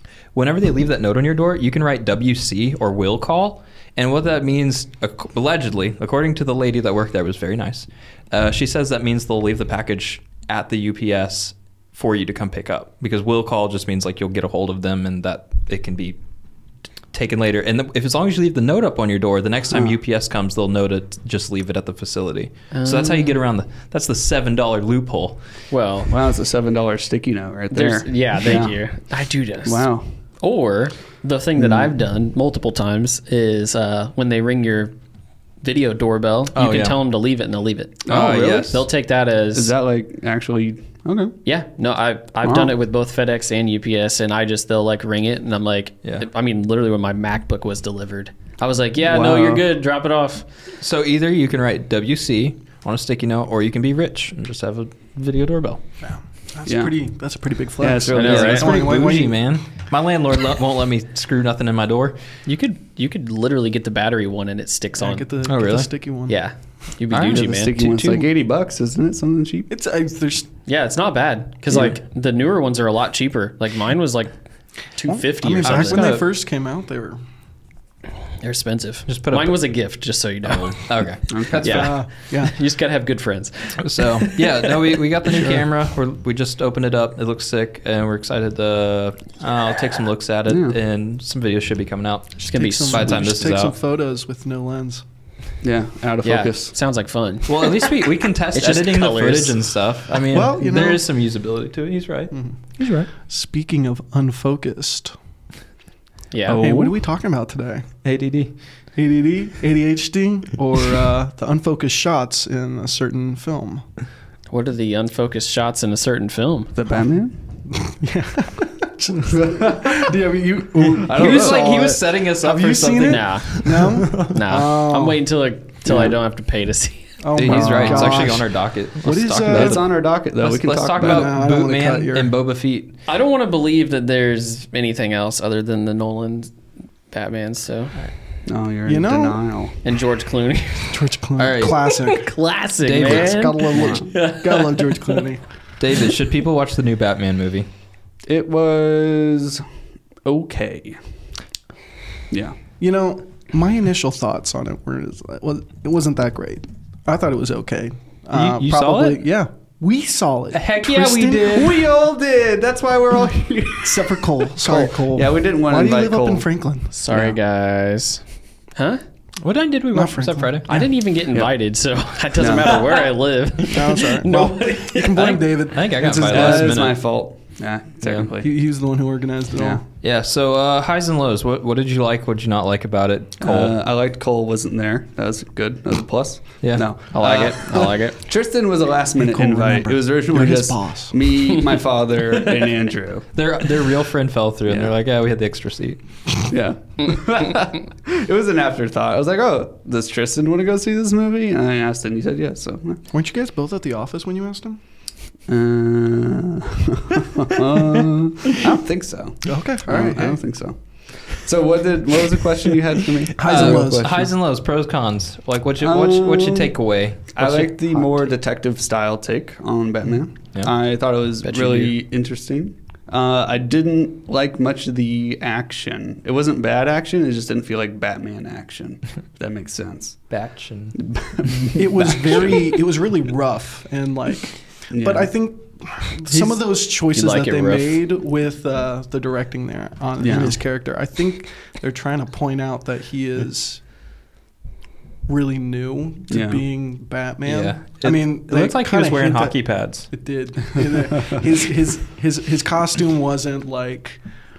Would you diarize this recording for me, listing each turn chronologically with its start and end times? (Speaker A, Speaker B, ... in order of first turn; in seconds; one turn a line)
Speaker A: 0.3-16.2
Speaker A: 17.1-25.4
Speaker B: 19.7-20.0
Speaker C: 22.7-23.4
Speaker C: 25.7-26.1
Speaker B: 26.1-28.8
Speaker C: 27.7-29.9
Speaker B: 29.6-30.1
Speaker C: 30.4-34.9
Speaker B: 31.6-31.9
Speaker C: 35.6-39.7
Speaker A: 36.5-37.0
Speaker B: 38.1-38.8
Speaker A: 38.1-38.8
Speaker B: 39.5-41.4
Speaker C: 41.4-50.4
Speaker B: 42.4-42.7
Speaker B: 49.0-49.6
Speaker A: 50.8-55.8
Speaker D: 56.0-59.4
Speaker B: 56.6-56.9
Speaker B: 57.8-58.8
Speaker C: 58.1-58.7
Speaker A: 58.1-62.2
Speaker C: 62.5-65.3
Speaker D: 65.0-66.4
Speaker A: 65.4-65.9
Speaker C: 66.3-68.2
Speaker A: 67.1-68.2
Speaker B: 67.3-69.7
Speaker D: 69.7-70.5
Speaker C: 70.7-74.3
Speaker C: 74.9-76.2
Speaker D: 75.0-77.2
Speaker A: 75.6-76.3
Speaker C: 78.4-80.8
Speaker A: 79.1-79.7
Speaker A: 80.4-81.9
Speaker B: 81.3-81.9
Speaker C: 81.5-84.5
Speaker D: 81.6-82.5
Speaker A: 83.8-93.7
Speaker B: 90.5-90.8
Speaker D: 92.4-95.0
Speaker C: 92.4-93.2
Speaker B: 95.6-96.7
Speaker C: 96.2-99.5
Speaker A: 97.5-103.1
Speaker D: 100.3-101.0
Speaker D: 102.3-102.6
Speaker D: 103.2-105.1
Speaker C: 106.3-106.6
Speaker B: 106.5-107.0
Speaker D: 106.5-107.9
Speaker A: 108.0-108.5
Speaker D: 109.0-113.8
Speaker C: 114.5-116.7
Speaker B: 116.7-117.3
Speaker D: 117.7-125.2
Speaker B: 119.3-120.1
Speaker B: 120.9-121.8
Speaker A: 120.9-124.3
Speaker C: 123.0-127.1
Speaker D: 127.2-129.9
Speaker A: 127.3-132.9
Speaker B: 127.4-128.3
Speaker B: 129.5-131.3
Speaker D: 131.0-132.3
Speaker C: 133.1-136.5
Speaker C: 137.1-137.9
Speaker B: 138.4-139.8
Speaker D: 138.8-139.4
Speaker C: 139.8-140.9
Speaker D: 140.9-142.3
Speaker A: 141.4-141.9
Speaker C: 141.9-145.2
Speaker A: 142.8-143.8
Speaker D: 143.0-145.4
Speaker B: 143.8-144.1
Speaker A: 145.8-147.7
Speaker B: 148.3-149.6
Speaker B: 150.2-151.0
Speaker B: 152.3-152.6
Speaker D: 152.8-161.7
Speaker A: 158.3-159.2
Speaker A: 160.5-161.8
Speaker B: 161.5-166.4
Speaker D: 163.8-166.9
Speaker C: 166.9-168.2
Speaker C: 168.8-169.0
Speaker A: 169.4-170.7
Speaker D: 169.9-170.9
Speaker C: 170.7-175.3
Speaker B: 172.4-172.8
Speaker D: 173.7-176.8
Speaker A: 175.0-177.1
Speaker B: 176.0-178.5
Speaker A: 178.0-178.3
Speaker D: 178.4-179.8
Speaker B: 179.6-179.8
Speaker A: 180.0-183.7
Speaker B: 183.4-193.3
Speaker A: 186.6-186.9
Speaker C: 187.1-188.2
Speaker D: 189.2-191.2
Speaker A: 193.3-196.0
Speaker B: 196.5-203.0
Speaker D: 203.1-204.8
Speaker B: 205.5-214.3
Speaker D: 209.4-210.4
Speaker D: 213.4-214.3
Speaker A: 213.4-217.8
Speaker B: 215.8-216.7
Speaker B: 217.3-230.2
Speaker C: 221.4-221.9
Speaker A: 230.3-231.0
Speaker B: 231.0-232.8
Speaker D: 231.8-243.8
Speaker B: 234.9-235.3
Speaker C: 237.1-238.0
Speaker B: 240.2-240.5
Speaker D: 245.3-249.6
Speaker B: 246.3-246.6
Speaker A: 247.4-250.1
Speaker D: 250.1-254.2